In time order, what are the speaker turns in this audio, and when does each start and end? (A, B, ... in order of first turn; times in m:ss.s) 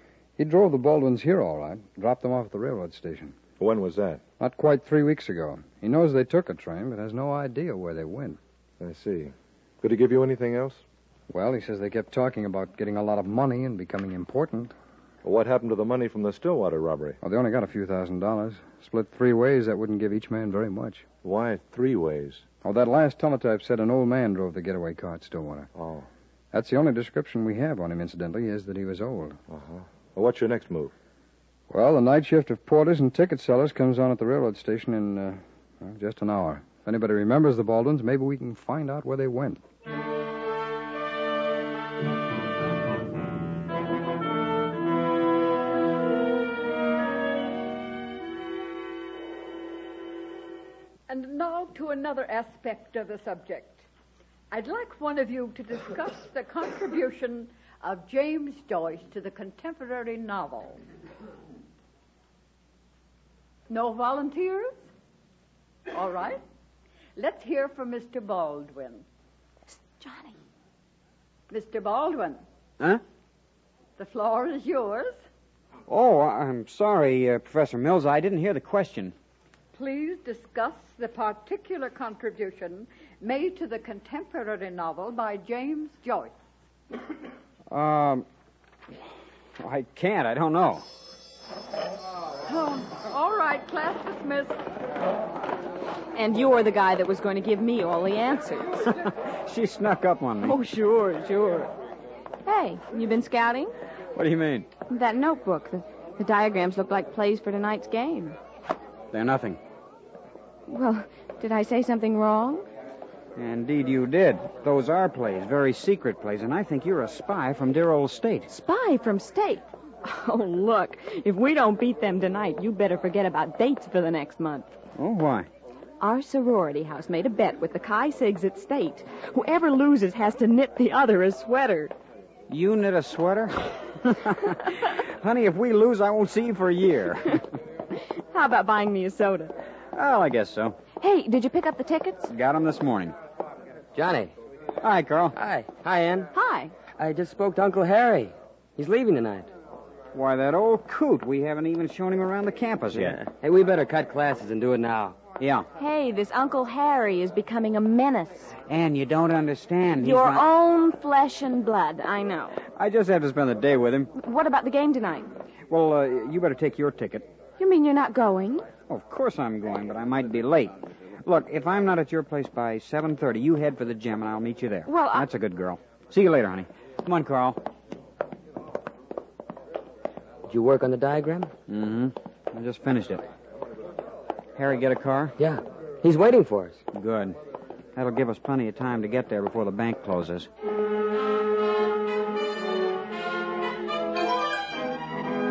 0:00.4-0:03.4 A
0:03.6-0:04.2 B
0:04.4-0:08.4 A
0:08.8-0:10.8 B
0:11.3-0:14.7 A
0:15.2-0:17.2 B
0:17.2-0:21.0 A
0:21.2-0:22.4 B
0:22.6-0:25.7 A
0:25.7-0:26.1 B
0:26.5-0:29.4 A
0:29.5-0:30.9 B
0:31.7-0:39.6 A
0:51.1-0:53.8 C
0:54.5-1:00.8 C
1:03.7-1:04.8 C
1:05.9-1:06.4 C
1:07.2-1:09.0 C
1:11.5-1:12.4 C
1:14.0-1:15.2 C
1:15.9-1:19.1 D
1:19.7-1:26.3 C
1:27.7-1:28.2 D
1:29.6-1:30.8 D
1:32.4-1:34.6 C
1:36.1-1:38.8 E
1:39.0-1:40.6 D
1:40.4-1:41.7 E
1:42.4-1:43.7 E
1:44.1-1:44.7 D
1:44.9-1:48.4 E
1:49.1-1:49.6 D
1:50.7-1:52.6 E
1:53.4-1:58.5 D
1:58.5-2:04.7 E
2:05.0-2:05.5 D
2:06.0-2:11.9 E
2:12.5-2:17.4 D
2:18.3-2:19.5 E
2:19.9-2:20.8 D
2:21.0-2:22.3 E
2:22.2-2:23.1 D
2:23.9-2:24.3 F
2:24.8-2:25.4 D
2:25.3-2:26.3 F
2:26.3-2:26.7 E
2:27.0-2:29.5 F
2:30.1-2:33.2 D
2:32.9-2:35.2 F
2:35.4-2:35.7 D
2:35.8-2:38.6 E
2:38.7-2:40.4 D
2:40.0-2:42.6 E
2:42.7-2:44.1 D
2:44.1-2:45.3 E
2:45.7-2:47.3 D
2:47.6-2:48.7 E
2:48.9-2:57.6 D
2:54.9-2:55.3 E
3:00.4-3:01.5 F
3:01.7-3:03.2 D
3:04.6-3:05.3 D
3:05.4-3:06.8 F
3:06.9-3:07.4 D
3:08.0-3:10.5 D